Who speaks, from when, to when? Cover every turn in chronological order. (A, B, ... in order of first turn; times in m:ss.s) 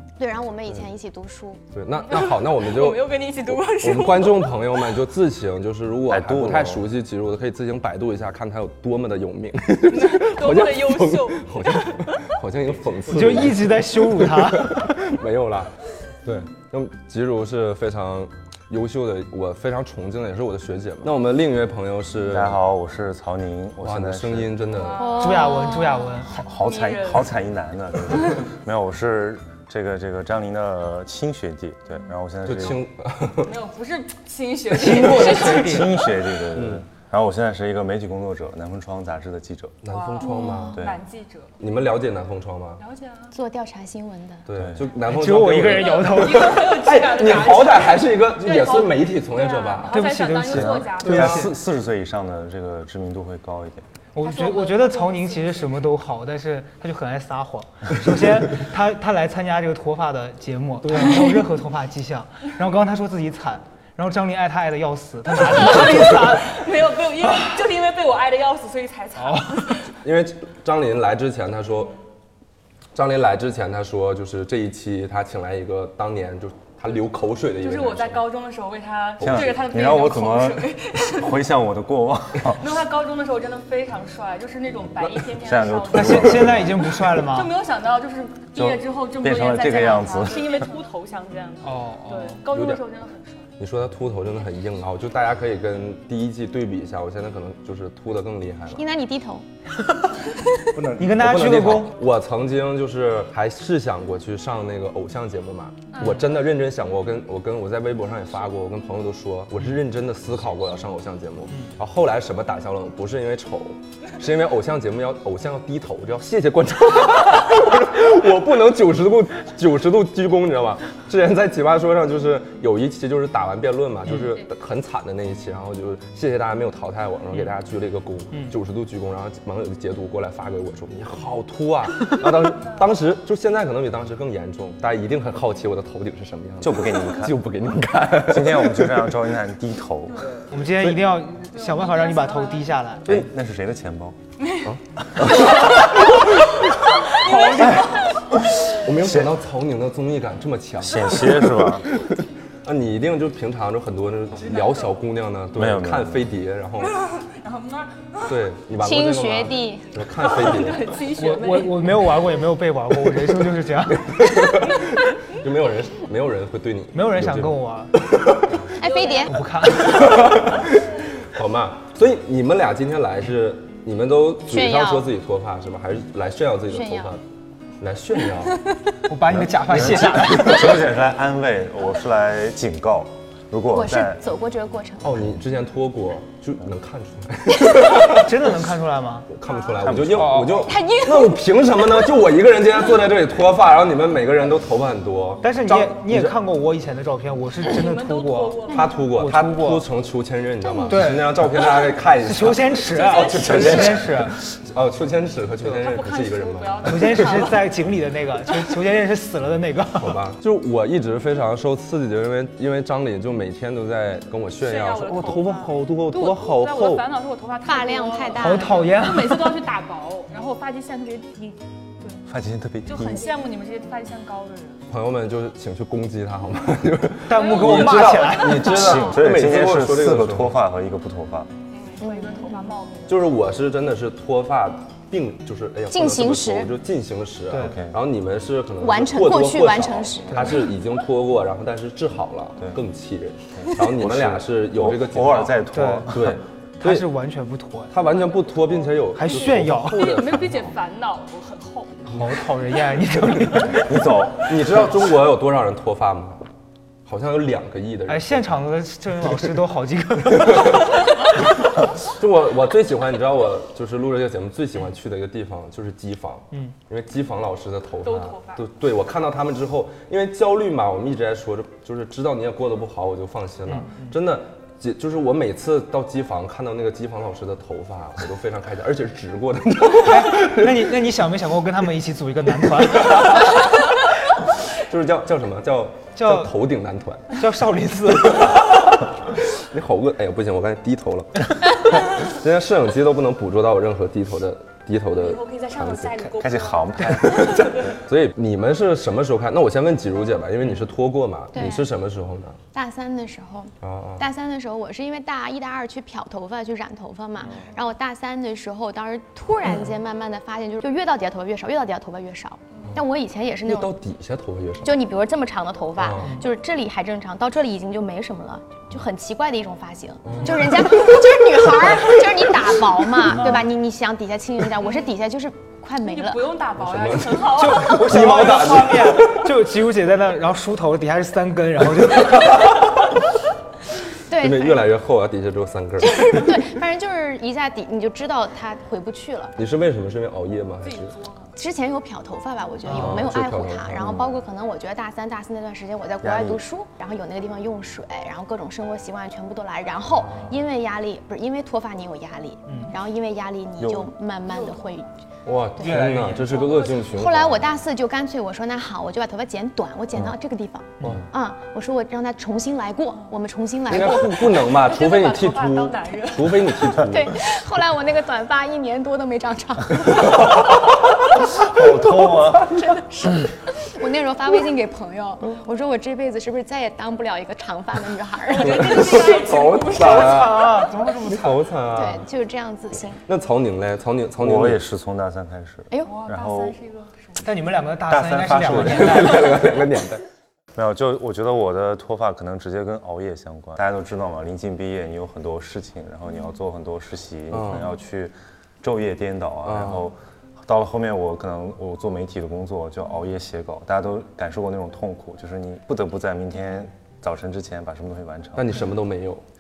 0:00.2-0:01.6 A
0:01.7-0:15.7 B
0:02.0-0:04.6 C
0:06.1-0:06.8 D
0:09.8-0:12.3 C
0:13.1-0:15.0 E
0:13.2-0:13.5 D
0:16.2-0:22.6 B
0:22.3-0:24.6 D
0:23.8-0:25.1 B
0:24.7-0:25.8 C
0:25.0-0:26.2 A
0:25.2-0:26.4 E
0:26.3-0:32.8 D
0:26.6-0:27.3 C
0:32.4-0:33.6 B
0:33.4-0:35.9 C
0:34.7-0:36.0 E
0:35.4-0:39.8 D
0:36.5-0:36.8 B
0:39.8-0:40.8 B
0:39.9-0:41.5 C
0:40.2-0:40.8 A
0:41.6-0:42.8 B
0:42.8-0:43.3 C
0:43.3-0:44.4 A
0:44.5-0:50.1 B
0:44.6-0:44.9 D
0:45.0-0:46.6 E
0:45.6-0:51.4 C
0:49.9-0:51.5 E
0:50.5-0:53.8 D
0:51.1-0:51.5 B
0:54.2-1:06.5 E
0:54.2-0:55.9 C
1:05.4-1:09.9 C
1:09.2-1:09.6 E
1:10.0-1:11.9 B
1:13.0-1:18.3 B
1:17.6-1:21.4 C
1:19.2-1:19.7 B
1:19.2-1:22.6 D
1:22.6-1:33.5 C
1:25.4-1:26.7 D
1:25.9-1:27.6 E
1:26.2-1:26.4 B
1:28.6-1:30.5 D
1:31.6-1:32.4 E
1:32.5-1:32.8 B
1:33.6-1:38.8 B
1:38.8-1:39.4 A
1:40.8-1:41.2 D
1:40.8-1:42.0 E
1:41.2-2:19.2 B
1:45.9-1:46.4 C
2:16.6-2:17.4 D
2:18.3-2:20.3 D
2:20.5-2:23.1 E
2:21.5-2:22.8 C
2:23.0-2:24.2 D
2:24.6-2:26.2 B
2:27.0-2:28.3 C
2:27.2-2:28.0 B
2:28.6-2:32.0 B
2:29.0-2:29.4 D
2:30.8-2:31.9 D
2:32.6-2:37.0 B
2:34.4-2:35.0 C
2:35.5-2:36.3 D
2:36.8-2:38.4 C
2:38.3-2:41.0 B
2:38.8-2:39.9 A
2:40.0-2:42.0 C
2:41.1-2:44.6 E
2:43.9-2:48.6 B
2:46.9-2:47.9 E
2:48.8-2:49.4 A
2:48.8-2:49.5 C
2:49.3-2:50.4 E
2:49.6-2:57.2 B
2:54.5-2:55.1 A
2:56.7-2:57.2 A
2:57.8-2:58.6 B
2:59.1-3:00.9 E
2:59.3-3:04.2 D
2:59.8-3:00.3 B
3:03.7-3:05.2 A
3:05.0-3:08.5 B
3:08.0-3:09.3 E
3:09.3-3:16.4 B
3:09.4-3:09.9 C
3:09.8-3:10.6 D
3:10.1-3:10.7 E
3:10.7-3:11.3 C
3:10.7-3:11.2 A
3:15.4-3:19.8 E
3:17.7-3:19.1 C
3:18.7-3:27.5 B
3:20.8-3:24.4 E
3:22.8-3:24.0 C
3:23.4-3:24.0 D
3:25.8-3:27.6 C
3:26.8-3:30.2 E
3:30.0-3:37.0 B
3:34.6-3:42.2 C
3:37.6-3:38.8 A
3:38.4-3:39.6 E
3:42.3-3:43.3 D
3:42.9-3:44.8 C
3:44.9-3:50.6 B
3:47.3-3:49.1 E
3:47.3-3:49.2 C
3:48.6-3:51.5 D
3:51.7-3:53.3 C
3:52.0-3:52.8 A
3:53.1-4:07.1 B
3:55.9-3:56.7 A
3:57.5-3:57.8 E
3:57.5-3:58.0 D
3:58.8-4:00.6 A
4:00.3-4:00.6 D
4:03.6-4:06.4 D
4:05.7-4:06.1 E
4:06.8-4:08.0 E
4:07.9-4:10.7 B
4:09.2-4:10.1 E
4:09.8-4:12.0 C
4:12.1-4:14.1 E
4:13.2-4:13.7 B
4:13.7-4:14.8 D
4:14.4-4:16.4 B
4:17.1-4:18.6 B
4:18.1-4:21.0 E
4:20.2-4:21.0 B
4:22.1-4:41.0 B
4:28.0-4:28.6 C
4:33.7-4:34.2 E
4:40.0-4:43.6 E
4:43.0-4:43.4 B
4:44.7-4:47.4 B
4:46.2-4:46.5 E
4:47.3-4:49.0 E
4:48.3-4:56.3 B
4:55.2-4:57.9 C
4:56.3-4:57.7 D
4:57.2-5:02.6 B
5:01.5-5:01.9 A
5:02.7-5:14.0 A
5:03.8-5:04.2 B
5:13.6-5:15.0 B
5:14.8-5:26.5 A
5:16.0-5:16.3 B
5:16.2-5:16.5 E
5:20.2-5:20.9 B
5:26.0-5:28.5 C
5:26.8-5:29.4 B
5:27.5-5:33.0 E
5:34.3-5:34.9 A
5:34.4-5:36.2 B
5:36.0-5:39.6 A
5:39.6-5:41.2 B
5:40.8-5:41.5 C
5:41.6-5:55.1 A
5:42.8-5:43.3 E
5:42.9-5:44.3 B
5:46.2-5:46.6 D
5:50.2-5:50.6 B
5:52.7-5:53.0 E
5:53.8-5:54.1 D
5:54.5-5:54.9 C
5:55.4-5:57.7 B
5:55.8-5:56.9 E
5:56.6-5:57.1 C
5:57.0-6:04.7 A
6:01.0-6:01.3 E
6:03.9-6:07.3 B
6:04.5-6:07.0 C
6:07.0-6:10.5 A
6:10.2-6:10.6 B
6:11.5-6:12.7 D
6:12.8-6:19.0 A
6:18.5-6:20.6 C
6:18.6-6:22.2 B
6:19.9-6:21.7 E
6:21.9-6:23.2 A
6:23.3-6:24.8 B
6:24.4-6:26.8 D
6:25.9-6:26.2 A
6:26.1-6:27.4 C
6:27.4-6:29.6 E
6:28.1-6:29.6 D
6:28.7-6:30.2 B
6:30.8-6:48.8 D
6:37.5-6:37.9 B
6:39.6-6:40.1 B
6:48.6-6:49.4 B